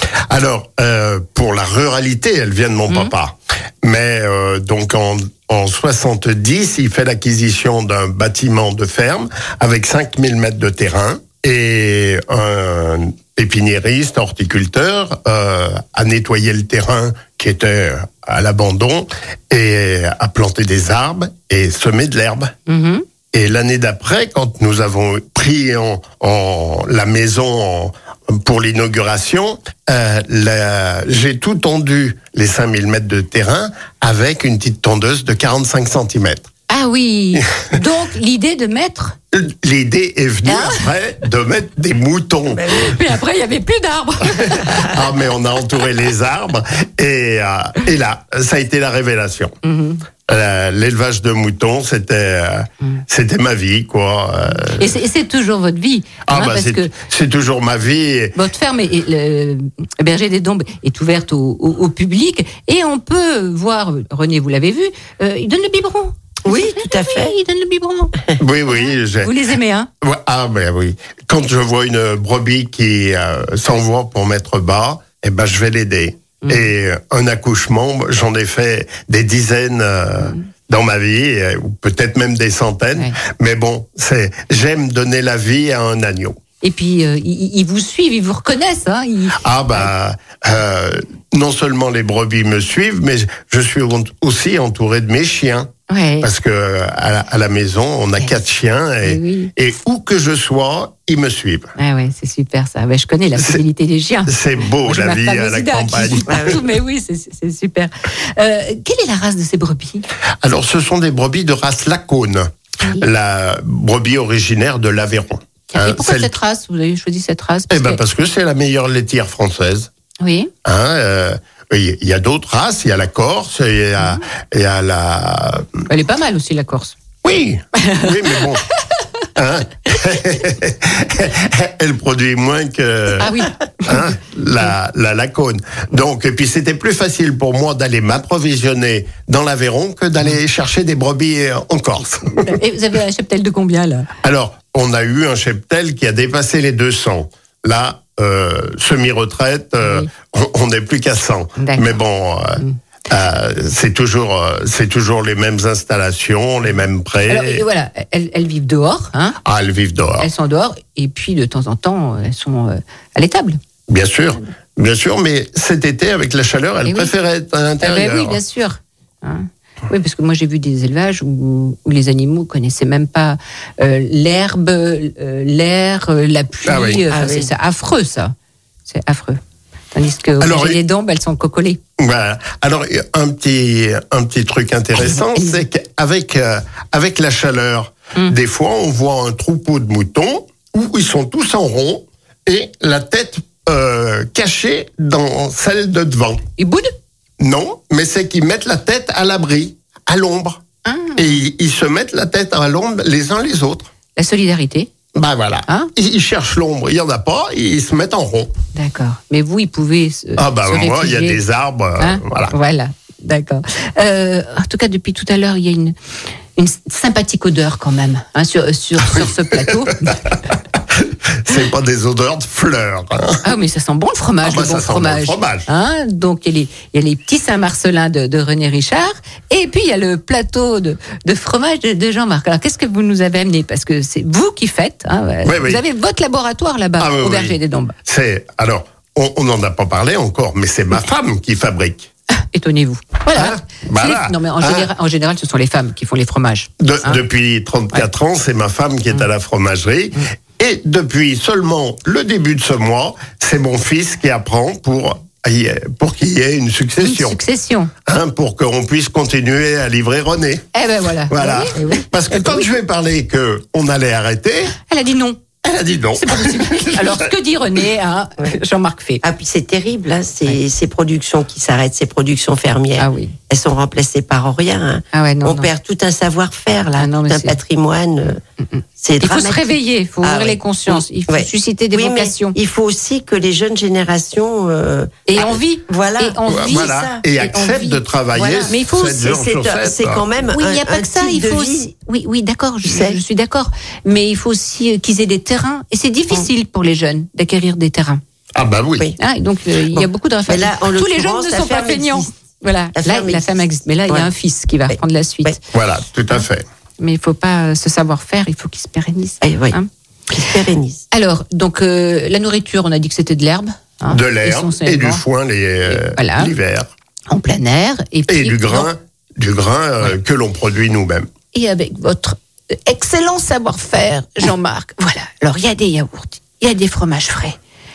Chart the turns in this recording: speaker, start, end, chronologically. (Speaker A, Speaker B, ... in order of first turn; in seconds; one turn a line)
Speaker A: 0.3-22.5
Speaker B: 22.7-23.0
Speaker A: 23.3-36.5
Speaker B: 36.7-39.2
Speaker A: 39.3-42.7
Speaker B: 40.5-40.8
Speaker C: 42.5-42.9
Speaker B: 42.7-44.9
Speaker A: 44.5-49.5
Speaker B: 49.6-50.0
Speaker A: 50.3-55.0
Speaker B: 54.8-56.9
Speaker A: 56.2-58.3
Speaker B: 58.4-68.2
Speaker C: 66.4-67.3
Speaker A: 68.4-69.3
Speaker B: 68.7-69.9
Speaker A: 70.0-86.4
Speaker B: 76.4-76.7
Speaker B: 86.6-89.9
Speaker A: 89.4-95.7
Speaker B: 95.9-96.3
Speaker A: 96.2-101.7
Speaker B: 99.0-99.5
Speaker B: 101.8-110.0
Speaker A: 104.3-106.5
Speaker C: 106.3-106.6
Speaker A: 110.4-116.3
Speaker B: 115.7-118.0
Speaker A: 117.7-119.9
Speaker B: 120.2-120.5
Speaker A: 120.6-125.8
Speaker B: 124.0-124.2
Speaker B: 125.9-126.9
Speaker A: 127.2-128.6
Speaker B: 127.8-128.4
Speaker A: 129.3-142.6
Speaker B: 133.2-134.1
Speaker B: 142.4-144.1
Speaker A: 144.2-157.6
Speaker B: 149.8-150.1
Speaker B: 151.6-151.9
Speaker B: 157.3-159.4
Speaker A: 159.4-160.3
Speaker B: 160.2-163.6
Speaker A: 163.9-168.4
Speaker B: 166.8-167.1
Speaker B: 167.8-178.3
Speaker A: 176.6-177.0
Speaker C: 177.1-177.5
Speaker B: 178.9-179.4
Speaker B: 179.9-181.8
Speaker A: 180.4-180.8
Speaker A: 182.0-196.4
Speaker B: 185.0-185.6
Speaker B: 196.6-196.9
Speaker A: 197.4-200.6
Speaker B: 200.8-201.4
Speaker A: 201.2-203.9
Speaker B: 204.2-204.9
Speaker A: 205.1-208.5
Speaker B: 208.7-211.4
Speaker A: 210.4-212.5
Speaker B: 212.0-215.9
Speaker B: 216.6-220.1
Speaker A: 219.2-220.4
Speaker A: 220.9-223.4
Speaker B: 223.4-237.9
Speaker A: 224.4-225.7
Speaker A: 235.4-235.8
Speaker A: 237.0-242.1
Speaker B: 242.5-247.2
Speaker A: 243.3-244.9
Speaker A: 246.8-257.4
Speaker B: 257.0-257.9
Speaker A: 258.1-260.7
Speaker B: 260.7-262.7
Speaker A: 261.3-264.7
Speaker C: 261.8-262.0
Speaker B: 264.9-265.4
Speaker A: 265.6-267.3
Speaker B: 266.2-269.2
Speaker C: 269.2-278.4
Speaker B: 273.0-273.3
Speaker B: 275.1-275.7
Speaker B: 277.0-277.6
Speaker B: 278.6-282.6
Speaker C: 279.0-287.2
Speaker B: 285.3-288.0
Speaker A: 286.5-290.2
Speaker C: 288.3-291.9
Speaker B: 288.6-289.2
Speaker B: 290.5-298.2
Speaker C: 292.8-293.2
Speaker A: 298.5-299.1
Speaker B: 299.2-305.6
Speaker C: 299.9-302.3
Speaker C: 302.9-304.3
Speaker C: 304.9-305.6
Speaker A: 305.7-306.6
Speaker B: 307.0-309.9
Speaker C: 309.4-309.8
Speaker C: 310.3-311.0
Speaker B: 311.1-315.2
Speaker A: 314.1-316.9
Speaker B: 315.9-316.5
Speaker B: 317.3-318.9
Speaker A: 318.3-321.3
Speaker B: 321.5-327.6